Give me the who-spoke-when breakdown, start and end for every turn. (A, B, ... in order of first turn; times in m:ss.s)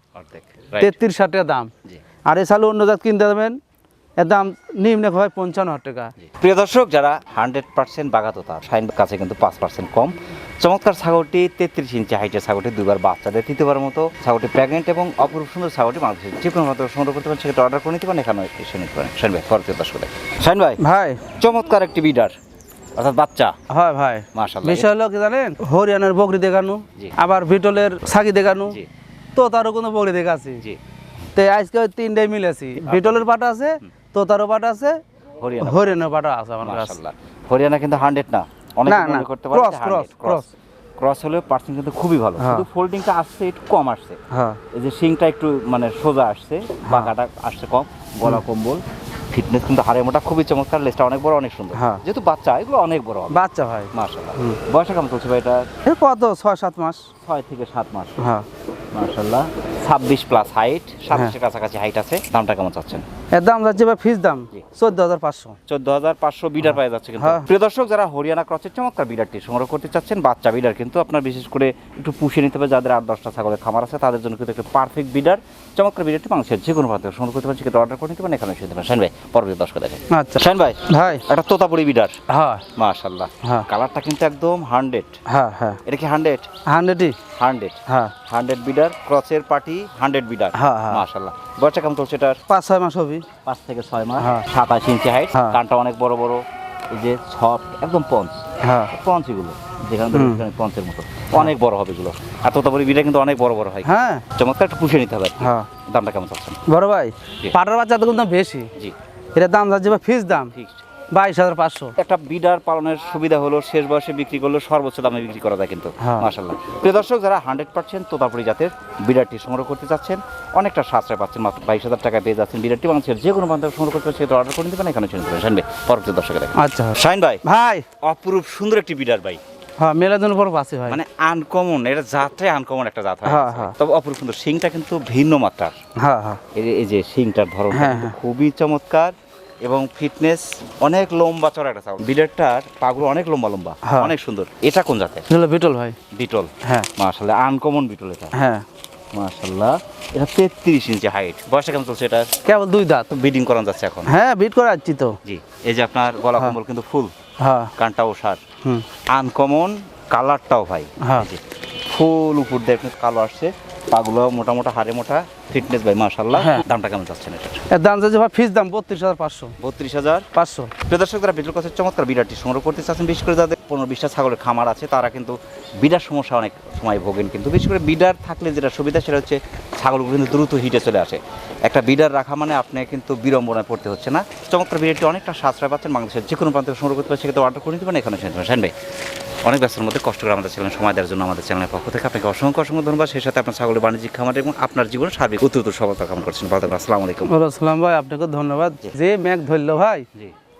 0:00.2-0:00.9 A
0:00.8-0:01.7 B
0:02.2-0:03.6 B
0:04.2-0:06.1 B
0:06.2-0:20.8 A
0:20.8-0:21.2 B
0:21.4-0:22.4 A
0:23.0-0:23.6 A
0:23.7-0:28.8 B
0:24.3-0:24.9 A
0:29.4-0:30.6 B
0:31.3-0:35.0 B
0:32.8-0:33.2 A
0:35.4-0:40.4 A
0:35.6-0:37.0 B
0:38.8-0:40.5 B
0:41.0-0:44.2 A
0:42.4-0:42.6 B
0:44.3-0:44.6 B
0:44.7-0:53.4 A
0:46.8-0:47.1 B
0:51.7-0:52.0 B
0:53.3-0:54.6 B
0:53.9-0:55.7 A
0:55.8-0:57.1 B
0:57.2-0:58.3 A
0:58.2-0:58.5 B
0:58.9-1:03.0 A
1:03.3-1:05.6 B
1:05.7-1:22.2 A
1:07.2-1:07.5 B
1:20.1-1:21.2 B
1:22.3-1:22.6 B
1:22.7-1:25.2 A
1:23.4-1:23.7 B
1:25.2-1:25.8 B
1:25.8-1:26.5 A
1:26.6-1:27.2 B
1:27.4-1:32.4 A
1:27.9-1:28.2 B
1:30.5-1:31.0 B
1:32.5-1:33.3 B
1:33.4-1:46.6 A
1:34.2-1:34.5 B
1:35.3-1:35.6 B
1:38.6-1:38.9 B
1:40.1-1:40.4 B
1:43.8-1:44.2 B
1:45.4-1:45.7 B
1:46.6-1:48.7 B
1:49.4-1:50.5 B
1:50.5-1:50.8 A
1:51.1-1:51.9 B
1:52.0-2:07.4 A
1:56.0-1:56.3 B
2:06.5-2:07.9 B
2:08.0-2:09.4 A
2:09.8-2:11.0 B
2:10.9-2:15.8 A
2:13.2-2:13.7 B
2:16.0-2:16.4 B
2:16.5-2:25.3 A
2:17.7-2:18.1 B
2:23.8-2:24.1 B
2:25.3-2:26.0 B
2:26.1-2:28.4 A
2:26.6-2:26.9 B
2:28.3-2:28.6 B
2:29.1-2:32.3 A
2:32.4-2:33.1 B
2:33.1-2:34.1 A
2:34.0-2:35.2 B
2:35.2-2:37.1 A
2:37.4-2:37.7 B
2:37.8-2:38.4 A
2:39.1-2:47.7 A
2:41.0-2:41.3 B
2:46.4-2:46.6 B
2:47.7-2:49.6 B
2:49.6-3:08.7 A
2:50.3-2:50.7 B
3:09.4-3:17.3 A
3:17.2-3:20.1 B